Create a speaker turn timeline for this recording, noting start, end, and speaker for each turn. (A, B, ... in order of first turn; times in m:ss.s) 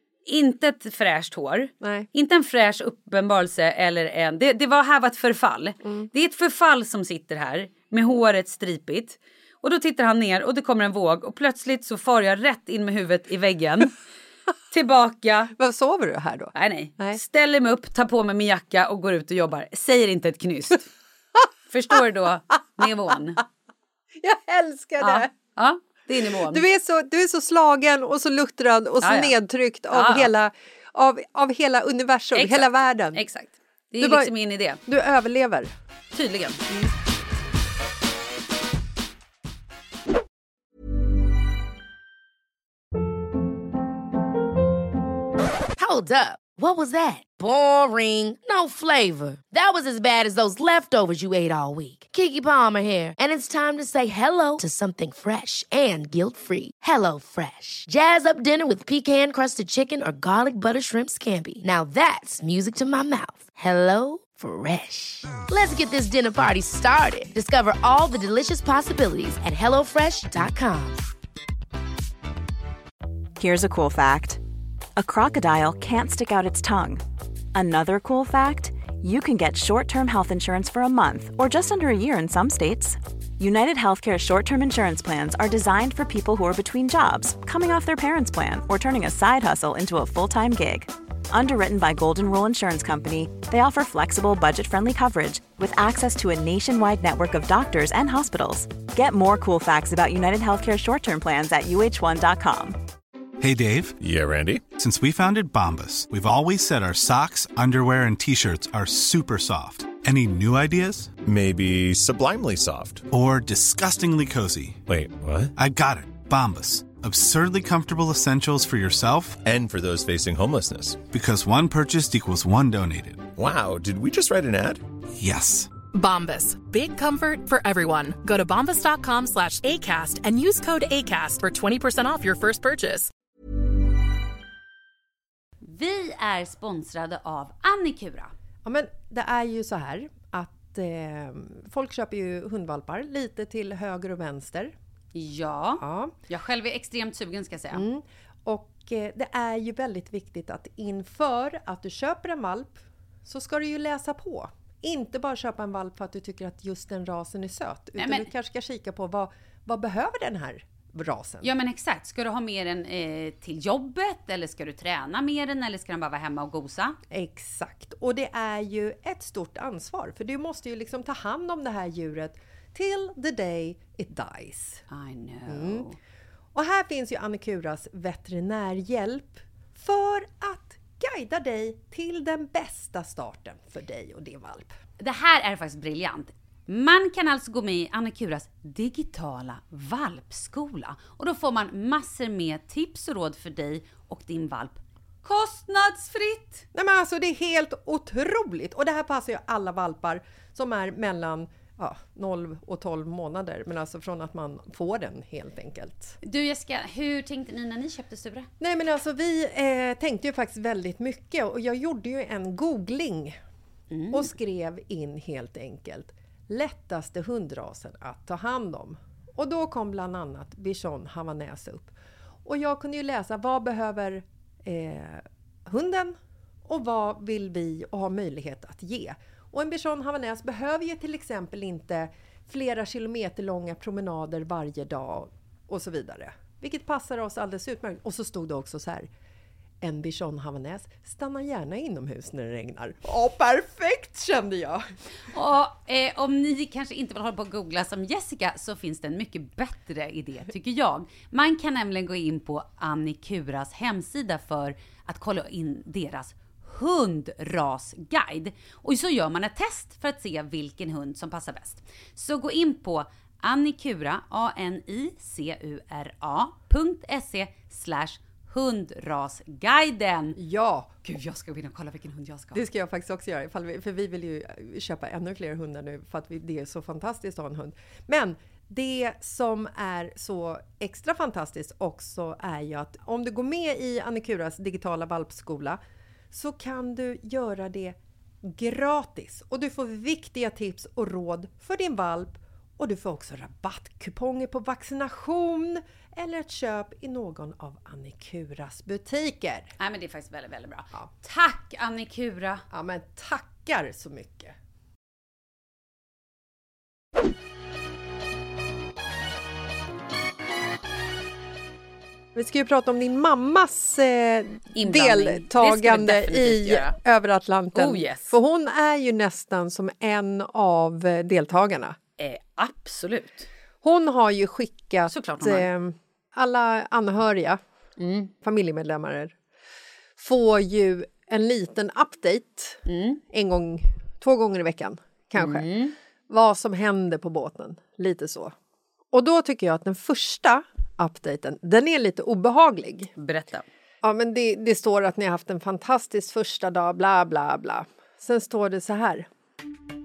0:00.2-0:13.9 A
0:01.8-0:02.1 B
0:14.7-0:15.5 A
0:15.6-0:17.2 B
0:16.6-0:20.9 A
0:21.7-0:23.4 A
0:24.2-0:25.3 B
0:25.0-0:26.6 A
0:26.4-0:33.2 B
0:29.0-0:29.4 A
0:29.9-0:30.3 A
0:32.3-0:34.8 A
0:34.0-0:34.3 B
0:34.9-0:35.7 B
0:36.1-0:36.6 A
0:45.8-1:11.0 C
1:13.4-1:14.4 D
1:15.0-1:17.0 D
1:17.5-1:42.8 D
1:43.4-1:44.0 E
1:44.0-1:44.6 F
1:44.7-1:51.1 E
1:51.2-1:53.1 F
1:53.1-1:54.8 E
1:54.9-1:55.5 F
1:55.6-1:59.4 E
1:59.4-2:01.0 F
2:01.0-2:03.3 E
2:03.3-2:04.8 F
2:05.2-2:05.7 E
2:05.9-2:13.1 G
2:15.6-2:18.3 A
2:18.6-2:24.7 B
2:25.1-2:27.8 A
2:25.8-2:26.1 B
2:27.7-2:41.5 B
2:38.0-2:38.3 A
2:41.4-2:47.0 A
2:47.1-2:54.8 B
2:54.9-2:56.0 A
2:55.5-2:55.9 B
2:56.5-3:04.8 B
3:05.0-3:16.6 A
3:16.7-3:26.2 B
3:26.2-3:28.5 A
3:28.6-3:33.4 B
3:33.9-3:34.3 A
3:34.1-3:41.9 B
3:42.4-3:59.1 B
3:59.8-4:04.8 B
4:05.3-4:30.4 A
4:30.4-4:30.9 B
4:31.0-4:32.6 A
4:32.5-4:45.8 B
4:46.3-4:59.7 B
4:59.8-5:02.6 A
5:02.7-5:04.5 B
5:12.3-5:22.0 B
5:14.7-5:16.9 A
5:17.7-5:18.4 A
5:22.2-5:23.5 A
5:23.8-5:27.6 B
5:25.1-5:25.7 A
5:28.0-5:28.3 A
5:28.4-5:29.3 B
5:30.2-5:35.7 B
5:32.9-5:33.2 A
5:35.4-5:35.9 A
5:36.3-5:38.5 B
5:39.1-5:43.1 B
5:43.2-5:43.6 A
5:44.0-5:49.2 B